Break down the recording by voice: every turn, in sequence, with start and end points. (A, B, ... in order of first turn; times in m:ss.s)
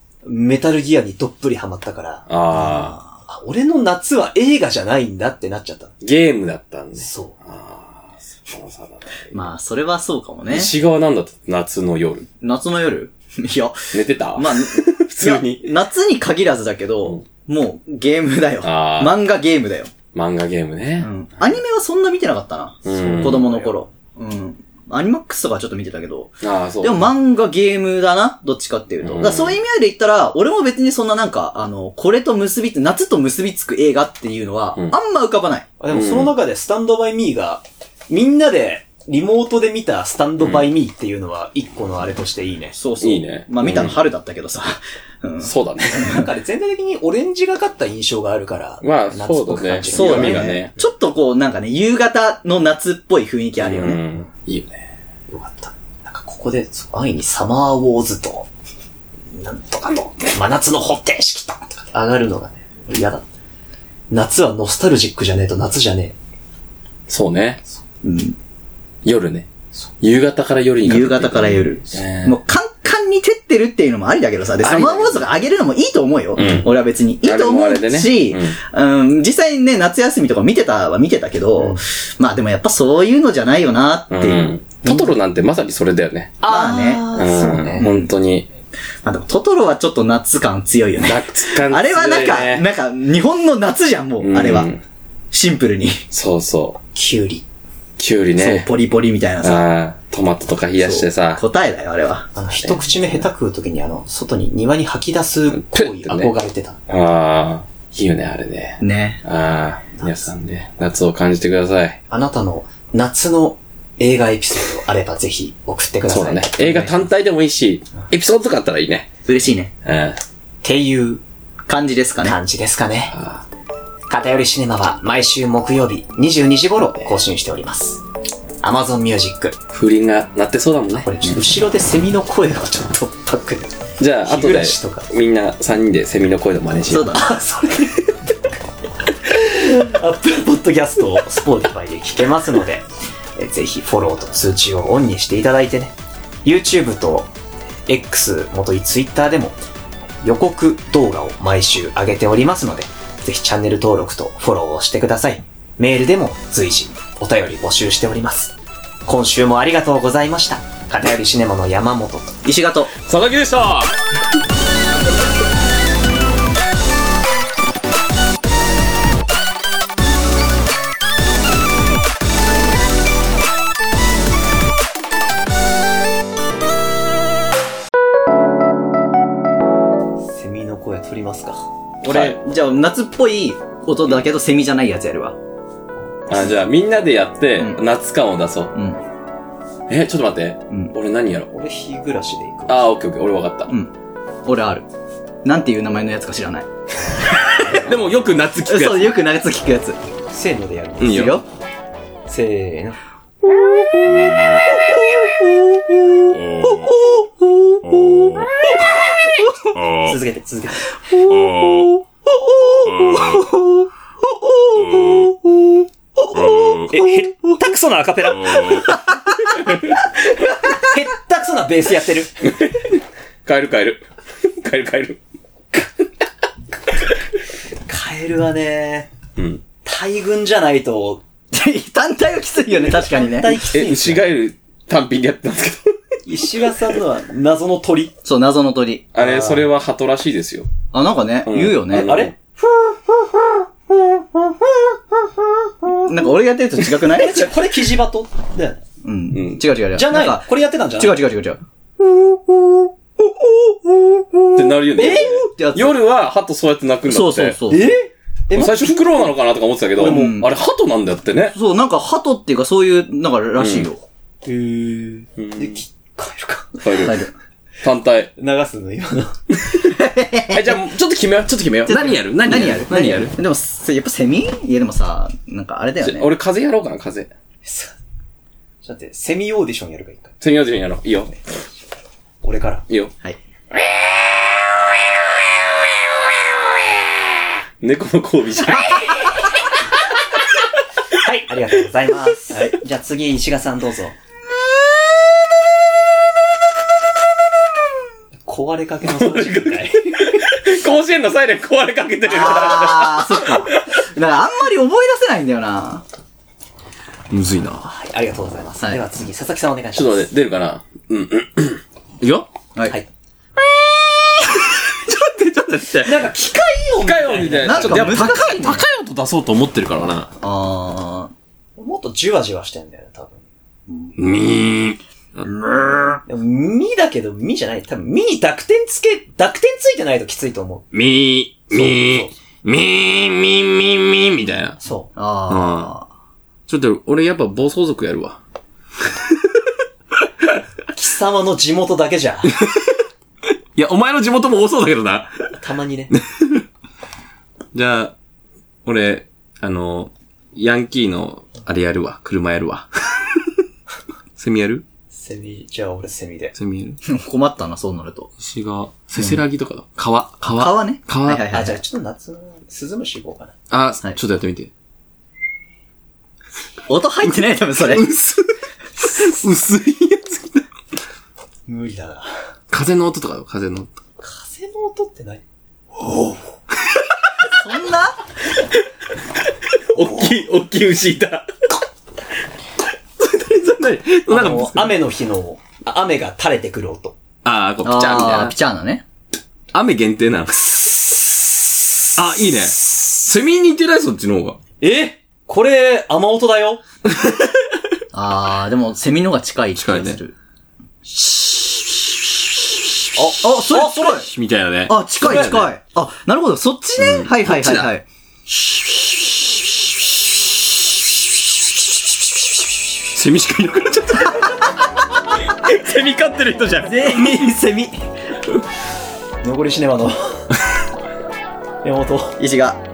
0:00.2-0:02.3 A
0:02.3-0:03.0 B
0:02.5-0:03.1 C
0:03.3-0:05.9 A
0:06.0-0:09.4 B
0:07.0-0:07.4 A
0:09.3-0:10.7 C
0:10.5-0:12.3 B
0:12.4-0:19.9 C
0:13.9-0:15.7 B
0:18.6-0:19.2 B
0:20.1-0:21.1 B
0:21.0-0:35.7 C
0:22.9-0:23.5 B
0:22.9-0:23.8 A
0:26.4-0:27.1 B
0:29.0-0:29.6 B
0:35.8-0:42.8 A
0:35.9-0:36.3 B
0:40.4-0:40.7 B
0:42.8-0:46.3 C
0:43.0-0:44.0 B
0:45.4-0:46.1 B
0:45.9-0:50.6 A
0:48.8-0:50.7 B
0:49.9-0:54.0 C
0:53.6-0:54.8 B
0:55.3-0:58.5 A
0:59.3-1:03.3 A
1:04.1-1:06.2 A
1:07.1-1:07.6 B
1:08.0-1:08.4 C
1:09.0-1:09.5 B
1:10.0-1:12.4 B
1:10.8-1:25.0 C
1:14.6-1:15.2 B
1:16.4-1:18.6 B
1:24.1-1:26.4 B
1:26.4-1:27.8 A
1:26.5-1:27.1 C
1:27.2-1:28.5 B
1:27.8-1:28.1 C
1:29.0-1:34.7 C
1:31.0-1:32.6 B
1:34.2-1:34.8 B
1:35.3-1:36.0 C
1:36.1-1:36.8 B
1:36.9-1:37.4 A
1:38.0-1:38.7 B
1:38.4-1:39.6 C
1:39.4-1:41.4 B
1:40.8-1:42.7 C
1:42.4-1:46.8 A
1:45.5-1:46.3 B
1:46.9-1:52.0 B
1:48.8-1:49.2 C
1:50.0-1:50.3 A
1:52.1-1:57.1 A
1:56.1-1:59.1 B
1:59.3-1:59.7 C
1:59.8-2:00.2 B
2:00.6-2:01.2 A
2:01.7-2:02.4 C
2:02.2-2:03.2 A
2:03.1-2:03.4 B
2:04.1-2:08.0 A
2:08.6-2:09.6 A
2:09.7-2:11.1 B
2:11.0-2:13.7 A
2:14.0-2:17.2 B
2:14.2-2:15.1 A
2:16.9-2:17.4 C
2:17.1-2:18.0 A
2:19.2-2:22.9 A
2:23.4-2:27.3 A
2:27.9-2:29.6 A
2:30.2-2:38.6 A
2:39.1-2:42.3 A
2:42.4-2:42.9 C
2:43.1-2:44.0 B
3:00.3-3:01.7 A
3:02.0-3:05.4 C
3:02.0-3:02.4 B
3:06.3-3:08.7 B
3:08.7-3:09.0 C
3:09.9-3:11.5 B
3:11.5-3:12.9 A
3:12.7-3:13.7 B
3:14.5-3:14.8 C
3:15.4-3:16.7 C
3:17.6-3:17.8 A
3:17.6-3:19.2 B
3:18.7-3:20.0 C
3:20.3-3:21.4 A
3:21.0-3:21.4 B
3:21.0-3:21.4 C
3:22.3-3:23.0 A
3:23.5-3:29.8 C
3:26.4-3:26.8 B
3:27.9-3:28.5 B
3:29.8-3:30.2 B
3:29.9-3:30.9 A
3:31.1-3:37.2 C
3:31.3-3:31.9 B
3:32.9-3:33.4 B
3:34.9-3:35.2 B
3:36.4-3:36.9 B
3:36.9-3:38.9 A
3:38.4-3:38.9 B
3:38.7-3:39.4 C
3:39.5-3:40.0 B
3:40.8-3:42.3 A
3:42.4-3:44.1 B
3:44.6-3:45.2 B
3:47.9-3:49.1 A
3:49.4-3:49.6 B
3:49.8-3:51.2 A
3:51.5-3:53.6 C
3:53.1-3:54.2 A
3:53.7-3:56.0 B
3:56.3-3:58.1 A
3:58.2-3:59.1 C
3:59.2-4:00.7 B
3:59.2-3:59.7 A
4:00.9-4:02.1 C
4:01.4-4:02.3 B
4:01.9-4:06.1 A
4:06.1-4:07.5 C
4:07.1-4:08.8 A
4:09.0-4:11.6 C
4:09.3-4:09.6 B
4:09.9-4:11.2 A
4:13.5-4:16.0 C
4:14.5-4:17.6 B
4:15.0-4:15.4 A
4:17.1-4:17.9 C
4:17.7-4:19.1 A
4:18.5-4:21.6 B
4:20.0-4:20.4 A
4:20.0-4:20.5 C
4:21.5-4:24.0 C
4:23.6-4:23.9 B
4:24.4-4:27.0 A
4:25.4-4:25.8 B
4:26.8-4:27.2 B
4:27.0-4:27.3 C
4:27.8-4:28.3 B
4:28.4-4:29.4 A
4:29.9-4:30.8 C
4:30.5-4:33.3 B
4:31.9-4:36.3 C
4:32.9-4:33.3 A
4:36.0-4:37.3 B
4:37.6-4:38.0 A
4:38.8-4:40.3 A
4:40.4-4:41.4 B
4:42.4-4:42.8 A
4:47.8-4:49.1 B
4:51.1-4:54.2 A
4:58.5-5:00.4 A
4:59.1-5:03.9 B
5:02.3-5:02.8 A
5:02.3-5:06.0 C
5:07.3-5:07.9 B
5:07.8-5:10.2 A
5:10.0-5:12.5 B
5:14.1-5:16.2 B
5:16.0-5:18.2 A
5:17.0-5:20.3 B
5:17.6-5:18.8 C
5:20.4-5:21.3 C
5:21.8-5:23.4 A
5:24.2-5:26.2 B
5:26.3-5:30.9 A
5:30.9-5:34.8 B
5:31.7-5:32.3 A
5:34.8-5:35.1 A
5:35.2-5:36.1 C
5:35.5-5:35.9 B
5:36.7-5:38.4 B
5:40.9-5:42.5 A
5:42.6-5:43.0 B
5:43.8-5:45.4 B
5:45.6-5:46.1 A
5:46.1-5:46.6 B
5:47.7-5:48.1 B
5:48.8-5:53.6 B
5:54.4-5:54.8 B
5:55.1-5:56.6 A
5:56.6-5:57.0 B
5:57.1-5:58.3 C
5:58.4-6:01.6 B
6:00.6-6:01.8 C
6:01.5-6:03.5 A
6:03.7-6:04.7 B
6:06.9-6:08.1 C
6:07.8-6:10.6 B
6:11.7-6:12.4 A
6:12.7-6:13.9 B
6:14.2-6:15.4 A
6:16.0-6:16.4 A
6:17.5-6:18.2 C
6:19.9-6:21.5 B
6:23.2-6:24.9 B
6:24.3-6:27.2 A
6:27.4-6:28.6 B
6:27.8-6:29.0 C
6:29.7-6:31.3 B
6:32.2-6:34.6 B
6:34.8-6:36.8 A
6:37.2-6:37.5 B
6:38.1-6:40.3 C
6:39.8-6:40.2 B
6:43.2-6:44.3 A
6:43.4-6:44.3 C
6:44.1-6:45.7 B
6:44.9-6:48.0 C
6:45.3-6:45.6 A
6:47.0-6:47.9 B
6:53.1-6:57.5 B
6:56.9-6:58.0 C
6:59.4-7:00.5 A
7:01.8-7:02.4 A
7:02.4-7:02.8 C